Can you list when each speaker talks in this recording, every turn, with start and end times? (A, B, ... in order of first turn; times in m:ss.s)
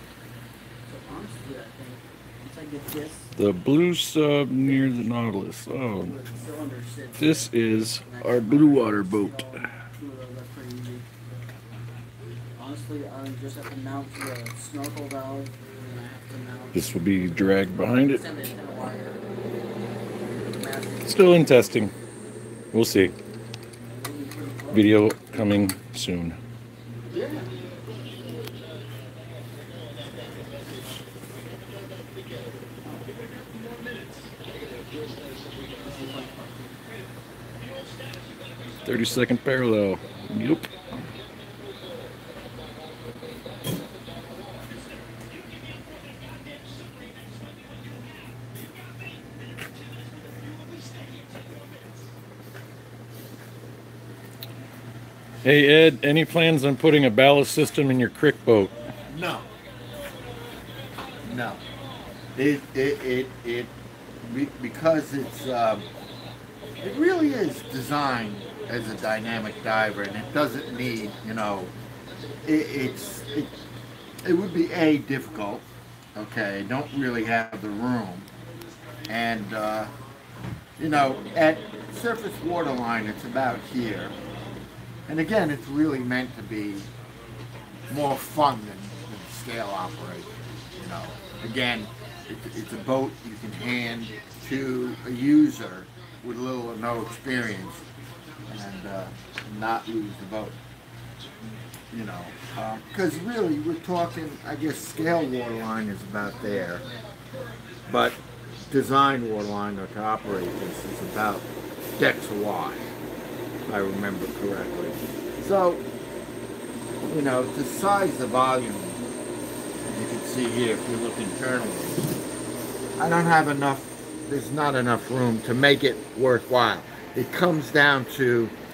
0:00.9-0:03.3 A
0:03.4-0:06.2 B
0:06.0-0:11.1 A
0:07.2-0:09.6 B
0:12.6-0:19.2 A
0:16.7-0:18.2 B
0:20.2-0:21.6 A
0:21.0-0:21.9 B
0:22.7-0:23.1 B
0:23.9-0:25.1 A
0:24.7-0:26.4 B
0:27.1-0:27.4 C
0:32.8-0:33.1 A
0:35.8-0:36.4 A
0:38.8-0:40.7 B
0:55.4-0:58.7 B
0:59.1-0:59.5 C
1:01.2-1:01.6 C
1:02.4-1:03.7 C
1:04.2-1:05.9 C
1:06.8-1:11.7 C
1:12.4-1:13.6 C
1:14.2-1:18.3 C
1:19.1-1:19.9 C
1:20.8-1:24.1 C
1:25.1-1:26.9 C
1:27.9-1:37.8 C
1:38.5-1:40.6 C
1:41.9-1:46.9 C
1:47.9-1:51.5 C
1:52.0-1:52.9 C
1:53.7-1:55.8 C
1:57.0-1:59.0 C
1:59.8-2:02.2 C
2:03.0-2:08.6 C